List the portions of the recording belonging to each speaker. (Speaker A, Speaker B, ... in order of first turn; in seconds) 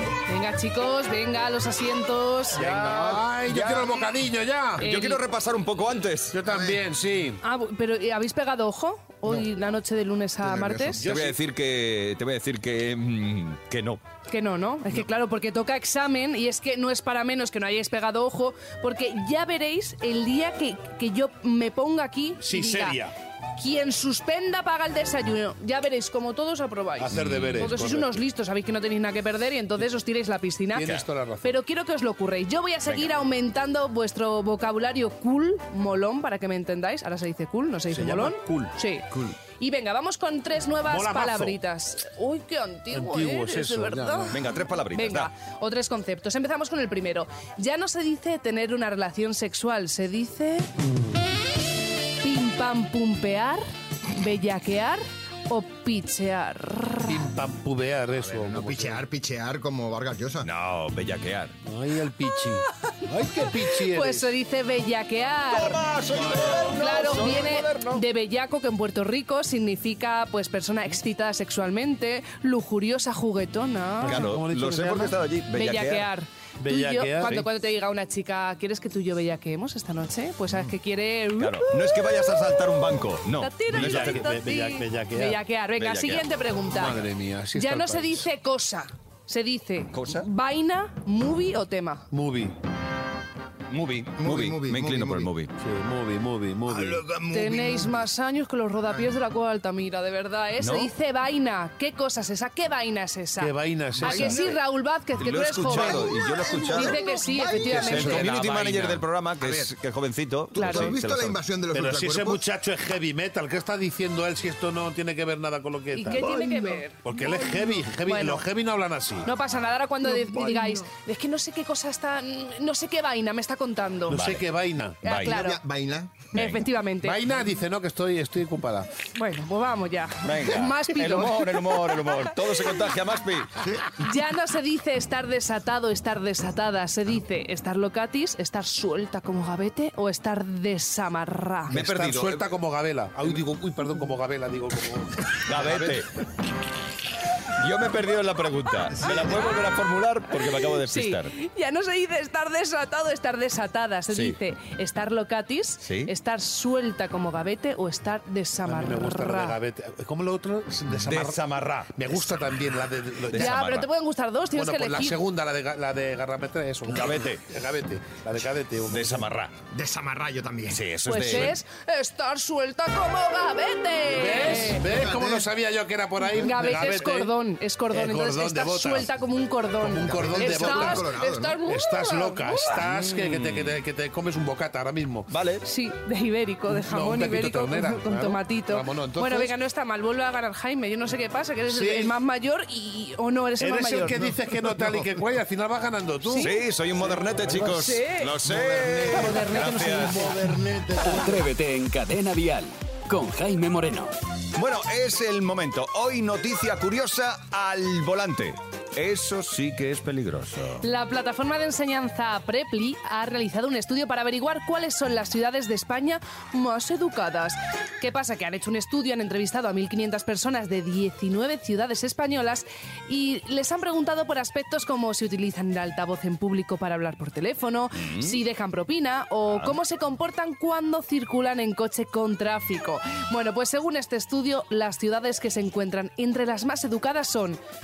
Speaker A: 0.3-2.6, 4.8-5.2, 7.4-11.0, 14.3-23.0, 23.6-39.0, 39.6-44.3, 44.9-50.7, 52.2-57.2, 63.8-65.8, 66.7-74.2, 75.5-82.0, 83.4-87.0, 87.5-92.1, 97.3-106.1, 106.7-108.3, 110.5-110.9, 115.9-118.4, 119.2-124.2, 125.0-125.6, 126.3-127.2, 129.1-132.3, 134.0-141.7, 150.8-159.6, 163.3-165.2, 171.0-174.8, 176.3-182.8, 185.6-194.2, 196.2-196.5, 197.7-198.3, 199.3-199.9, 210.8-237.6
Speaker B: 2.5-4.8, 6.3-7.4, 10.9-11.4, 22.4-23.1, 27.0-28.2, 30.7-31.6, 37.9-38.7, 40.9-41.6, 42.9-44.4, 50.8-51.2, 57.0-59.0, 61.6-64.3, 74.0-75.2, 76.6-77.5, 83.7-85.4, 86.7-88.3, 92.1-92.6, 95.6-97.0, 103.4-104.6, 107.5-109.0, 111.7-119.3, 124.1-125.0, 127.0-128.9, 141.7-146.0, 158.6-163.7, 164.5-169.3, 174.1-177.3, 177.9-179.1, 179.8-181.1, 181.7-185.3, 186.7-189.6, 191.7-192.2, 193.6-196.5, 197.1-201.2
Speaker C: 2.6-4.1, 4.8-6.4, 11.0-14.0, 27.1-27.8, 44.3-45.3, 60.4-61.5, 65.5-68.0, 74.0-76.1, 81.4-84.3, 85.8-86.2, 89.9-90.3, 93.7-95.5, 100.6-100.9, 105.2-107.0, 107.7-111.4, 124.1-124.5, 125.0-125.4, 130.2-133.6, 141.7-142.5, 145.4-146.1, 147.6-151.3, 154.1-154.4, 155.8-156.1, 160.9-162.4, 163.3-163.9, 166.9-167.4, 168.9-169.5, 170.7-171.6, 182.8-183.8, 185.3-185.6, 196.4-200.3, 204.6-210.8, 227.9-228.4, 229.5-229.8
Speaker D: 6.5-6.8, 10.4-11.0, 58.2-60.5, 94.2-95.3, 96.7-98.0, 104.0-104.4, 105.7-108.3, 109.4-109.7, 110.5-112.4, 125.2-126.6, 169.7-170.8, 174.8-175.5, 180.0-181.6, 194.2-195.1, 198.7-201.3
Speaker E: 201.0-204.1